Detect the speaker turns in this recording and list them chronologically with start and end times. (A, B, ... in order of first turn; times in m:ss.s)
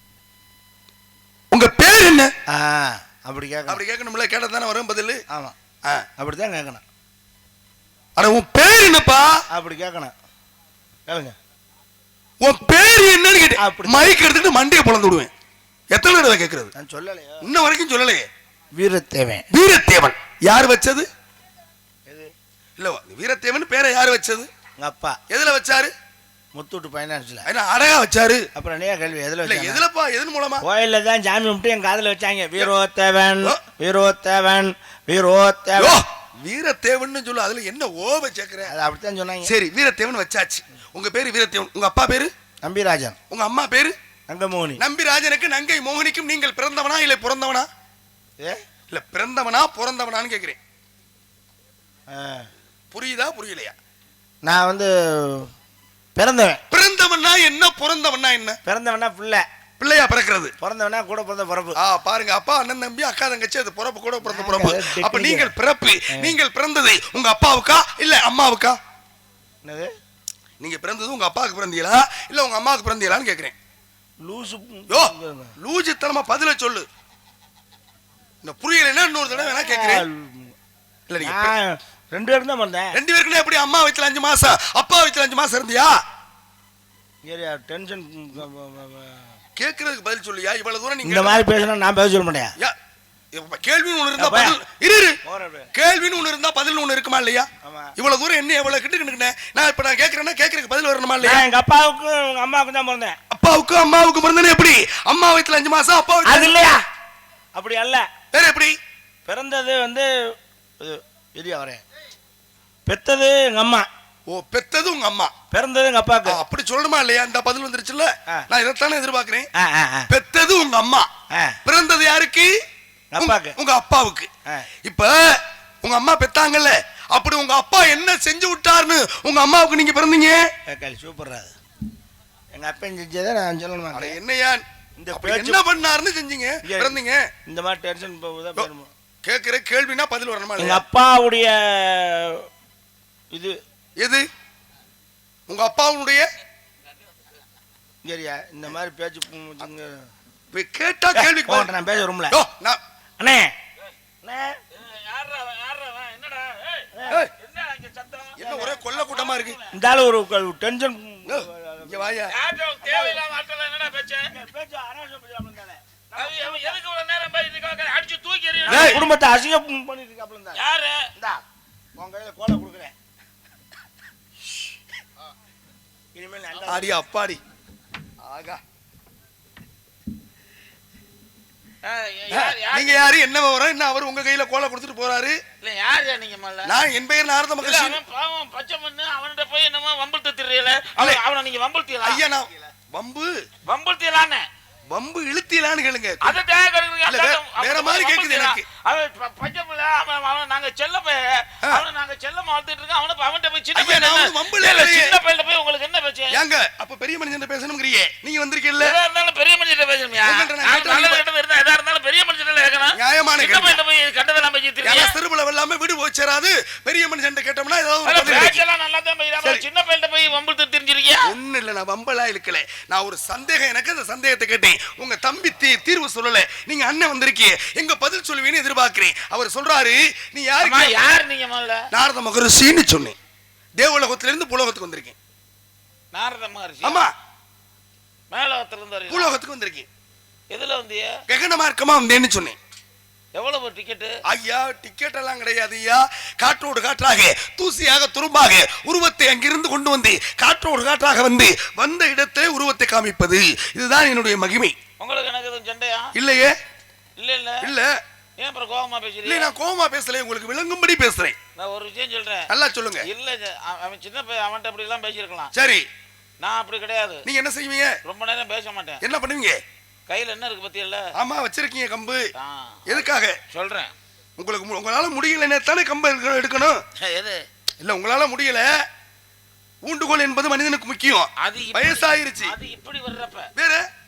0:01.5-0:02.3 A
0:02.5-0:03.8 B
0:03.7-0:05.2 A
0:05.3-0:05.6 B
0:06.2-0:06.8 B
0:08.2-0:09.4 A
0:09.5-0:10.1 B
0:11.1-0:11.4 B
0:12.4-0:15.3 A
0:13.6-0:14.1 B
0:15.9-0:16.7 A
0:16.8-0:17.5 B
0:17.4-0:18.3 A
0:18.7-0:19.5 B
0:19.5-0:21.1 A
0:22.8-0:24.5 A
0:24.8-0:25.2 B
0:25.3-0:25.9 A
0:26.6-0:27.5 B
0:27.5-0:28.5 A
0:28.6-0:29.8 B
0:29.4-0:30.6 A
0:30.6-0:36.0 B
0:35.8-0:38.7 A
0:38.7-0:39.5 B
0:39.4-0:42.3 A
0:42.6-0:43.2 B
0:43.3-0:44.0 A
0:44.3-0:44.8 B
0:44.8-0:47.7 A
0:48.9-0:50.6 A
0:52.1-0:52.5 B
0:52.9-0:53.8 A
0:54.4-0:55.5 B
0:56.2-0:56.6 B
0:56.7-0:58.6 A
0:58.7-0:59.4 B
0:59.8-1:00.5 A
1:00.6-1:01.8 B
1:01.8-1:08.8 A
1:04.2-1:05.5 B
1:09.6-1:09.9 B
1:10.6-1:13.6 A
1:14.2-1:15.6 B
1:14.9-1:16.9 A
1:18.4-1:20.0 A
1:19.3-1:20.6 B
1:21.1-1:21.5 A
1:21.2-1:23.0 B
1:22.9-1:26.0 A
1:27.2-1:29.4 B
1:29.6-1:31.4 A
1:31.0-1:32.6 B
1:33.3-1:35.2 A
1:34.2-1:34.6 B
1:35.2-1:35.7 B
1:35.7-1:41.5 A
1:37.6-1:37.9 B
1:41.2-1:43.2 B
1:43.3-1:46.5 A
1:46.2-1:46.8 B
1:47.6-1:48.1 B
1:48.3-1:48.8 A
1:49.3-1:51.8 B
1:52.9-1:53.9 B
1:54.3-1:55.3 A
1:55.5-1:56.4 B
1:56.3-1:59.5 A
1:59.6-2:00.1 B
2:00.1-2:01.1 A
2:01.3-2:01.6 B
2:01.6-2:02.5 A
2:03.1-2:03.6 B
2:03.2-2:04.3 A
2:04.8-2:10.4 A
2:10.7-2:11.6 B
2:12.5-2:14.2 B
2:13.9-2:17.3 A
2:15.0-2:15.6 B
2:16.6-2:17.0 B
2:17.5-2:18.9 B
2:19.2-2:20.8 A
2:20.6-2:22.5 B
2:23.3-2:23.6 B
2:24.0-2:24.2 A
2:25.5-2:26.3 A
2:28.0-2:30.1 B
2:30.5-2:31.7 A
2:31.1-2:32.4 B
2:32.3-2:32.8 A
2:33.2-2:33.5 B
2:34.2-2:34.6 B
2:34.7-2:39.7 C
2:36.9-2:37.2 B
2:38.4-2:39.6 A
2:39.7-2:42.2 B
2:41.3-2:42.3 A
2:42.3-2:44.3 C
2:42.8-2:43.2 B
2:44.3-2:46.8 B
2:46.2-2:49.1 C
2:48.7-2:49.0 A
2:48.7-2:50.6 B
2:50.6-2:51.1 C
2:51.2-2:51.4 B
2:52.0-2:52.9 B
2:56.2-2:56.9 B
2:56.7-2:57.4 A
2:58.2-2:58.6 A
3:01.8-3:03.1 C
3:02.3-3:05.4 A
3:05.6-3:06.8 C
3:06.7-3:08.0 A
3:07.6-3:12.2 C
3:12.0-3:13.4 A
3:13.7-3:14.5 C
3:14.9-3:16.4 A
3:16.2-3:26.4 C
3:17.1-3:18.6 A
3:23.8-3:25.2 A
3:26.3-3:29.0 A
3:28.8-3:35.2 C
3:30.2-3:31.2 A
3:32.9-3:33.8 A
3:34.8-3:38.6 A
3:38.0-3:41.3 C
3:41.2-3:51.0 A
3:50.6-3:51.9 C
3:51.9-3:53.2 A
3:53.8-3:55.2 A
3:56.1-3:57.1 C
3:56.8-3:57.1 A
3:58.3-3:59.3 C
3:59.1-3:59.9 A
4:00.5-4:01.1 C
4:01.3-4:02.6 A
4:03.4-4:04.1 C
4:04.3-4:14.8 A
4:15.0-4:16.1 C
4:16.2-4:16.6 A
4:17.2-4:17.7 C
4:17.6-4:18.0 A
4:18.4-4:19.5 C
4:19.2-4:21.4 A
4:21.6-4:22.5 C
4:22.5-4:23.1 A
4:23.0-4:25.5 C
4:25.5-4:25.9 A
4:26.4-4:27.3 C
4:27.2-4:28.0 A
4:28.0-4:29.0 C
4:29.0-4:29.6 A
4:30.1-4:31.1 C
4:31.2-4:32.3 A
4:32.4-4:33.9 C
4:32.9-4:33.4 A
4:34.4-4:36.8 A
4:37.0-4:37.4 C
4:37.8-4:38.8 A
4:39.9-4:42.6 A
4:41.4-4:43.5 C
4:43.6-4:43.9 A